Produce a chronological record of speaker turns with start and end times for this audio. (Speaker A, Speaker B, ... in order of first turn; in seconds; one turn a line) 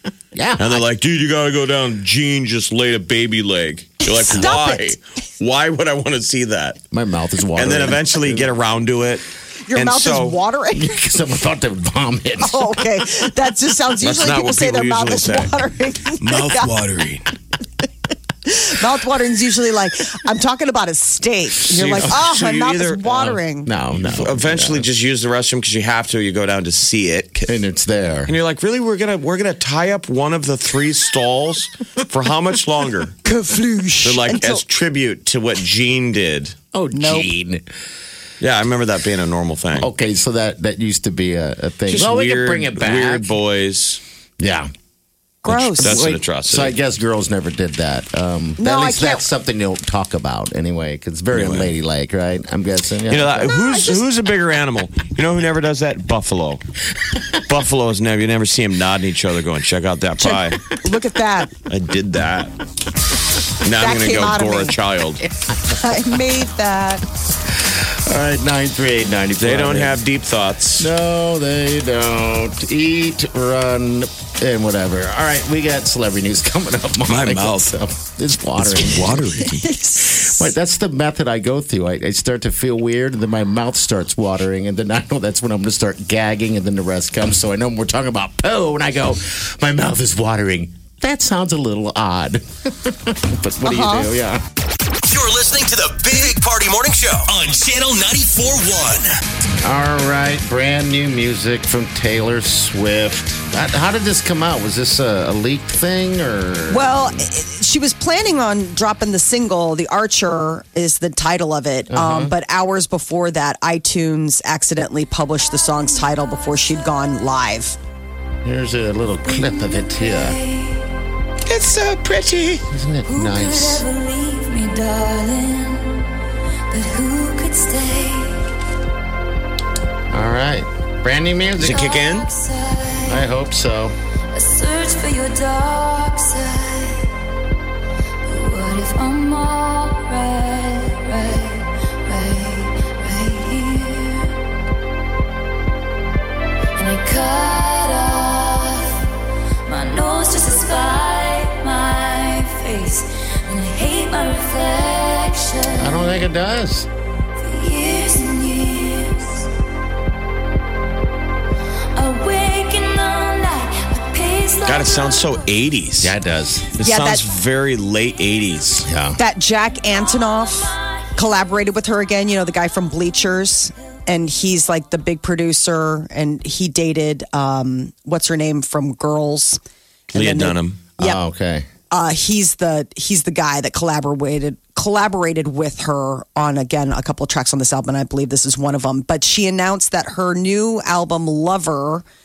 Speaker A: 0.3-0.8
Speaker B: 0.6-6.8
Speaker C: 4.1-5.0
Speaker A: 6.9-8.5
Speaker B: 7.5-10.4
Speaker C: 9.7-11.0
Speaker A: 10.7-12.9
Speaker C: 12.4-16.7
Speaker B: 14.0-15.5
Speaker B: 16.2-17.3
Speaker C: 18.5-23.7
Speaker B: 21.7-23.3
Speaker A: 23.6-24.9
Speaker B: 23.9-27.5
Speaker A: 27.5-28.3
Speaker B: 28.3-33.1
Speaker C: 33.2-34.6
Speaker B: 34.0-36.6
Speaker A: 36.7-37.7
Speaker C: 36.9-37.3
Speaker B: 38.4-39.9
Speaker A: 39.8-43.3
Speaker B: 41.9-44.0
Speaker A: 44.4-44.7
Speaker C: 45.4-46.0
Speaker B: 45.5-46.7
Speaker A: 45.8-53.7
Speaker C: 48.6-49.3
Speaker B: 51.3-51.7
Speaker B: 53.1-56.6
Speaker B: 57.3-60.7
Speaker C: 60.2-61.5
Speaker B: 61.7-62.5
Speaker B: 63.6-65.2
Speaker C: 63.8-64.8
Speaker C: 65.6-67.0
Speaker A: 67.6-70.0
Speaker B: 69.4-70.9
Speaker A: 70.8-79.5
Speaker B: 77.1-77.8
Speaker B: 78.6-79.7
Speaker C: 79.5-80.5
Speaker A: 80.0-94.4
Speaker C: 93.6-94.1
Speaker D: 95.0-99.2
Speaker A: 99.6-107.2
Speaker C: 106.7-117.8
Speaker A: 111.9-112.3
Speaker A: 118.5-120.4
Speaker E: 119.2-120.9
Speaker B: 121.5-122.6
Speaker A: 122.7-123.8
Speaker E: 123.1-126.1
Speaker E: 126.7-128.5
Speaker A: 130.1-131.9
Speaker B: 131.6-132.3
Speaker E: 131.7-133.2
Speaker A: 133.1-133.9
Speaker E: 134.3-137.1
Speaker E: 138.2-144.4
Speaker E: 146.8-149.1
Speaker E: 149.7-156.1
Speaker A: 155.8-156.9
Speaker E: 157.4-159.5
Speaker E: 161.9-165.4
Speaker B: 164.7-166.2
Speaker A: 166.0-166.7
Speaker B: 166.8-168.9
Speaker C: 166.8-167.2
Speaker A: 168.8-169.2
Speaker C: 169.2-179.6
Speaker C: 180.1-181.2
Speaker B: 180.1-180.8
Speaker A: 181.0-181.7
Speaker C: 181.9-192.0